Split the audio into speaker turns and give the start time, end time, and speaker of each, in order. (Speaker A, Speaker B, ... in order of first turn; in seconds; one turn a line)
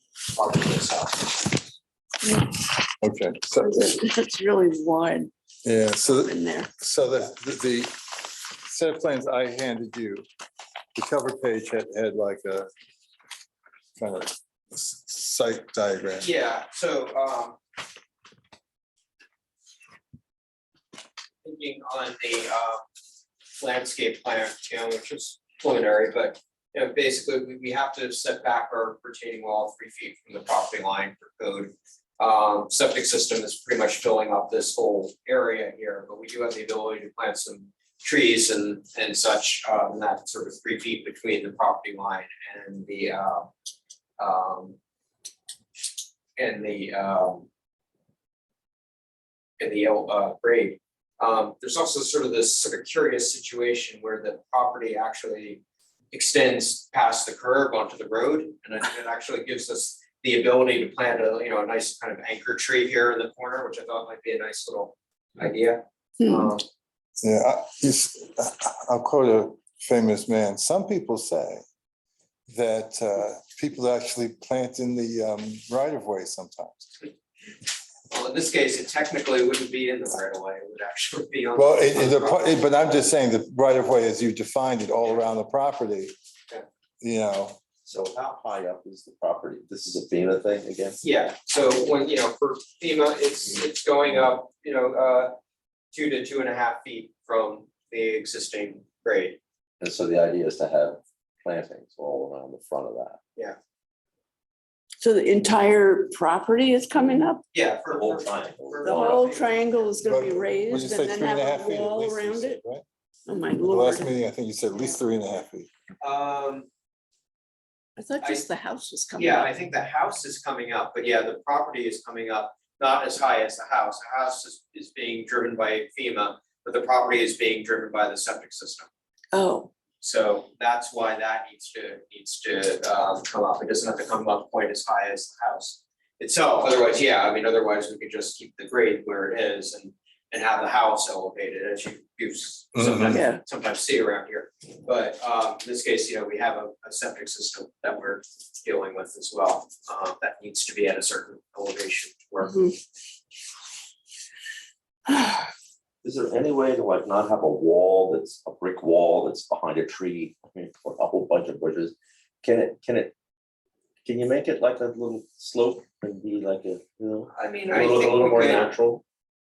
Speaker A: 0.3-1.6
Speaker B: 3.0-4.0
Speaker C: 3.5-5.3
Speaker B: 5.6-10.2
Speaker C: 6.0-6.7
Speaker B: 10.9-12.7
Speaker B: 14.0-16.3
Speaker A: 16.2-17.6
Speaker A: 21.4-22.8
Speaker A: 23.5-43.5
Speaker A: 44.2-44.8
Speaker A: 46.4-47.5
Speaker A: 49.6-66.6
Speaker B: 67.2-71.6
Speaker B: 72.5-76.9
Speaker A: 78.1-82.6
Speaker B: 81.5-86.1
Speaker B: 87.0-87.6
Speaker D: 87.8-91.0
Speaker A: 91.0-95.3
Speaker A: 95.9-99.4
Speaker D: 99.8-103.2
Speaker C: 105.0-107.4
Speaker A: 107.5-109.9
Speaker D: 107.9-109.2
Speaker C: 108.8-112.6
Speaker B: 110.0-112.8
Speaker C: 113.3-114.1
Speaker B: 113.6-115.7
Speaker A: 116.0-116.7
Speaker C: 118.0-119.5
Speaker A: 119.2-128.9
Speaker C: 129.3-129.7
Speaker A: 130.0-152.7
Speaker B: 142.8-143.2
Speaker C: 143.1-143.4
Speaker C: 152.4-152.7
Speaker C: 155.1-155.5
Speaker D: 156.0-163.1
Speaker D: 164.0-169.0
Speaker A: 167.3-168.7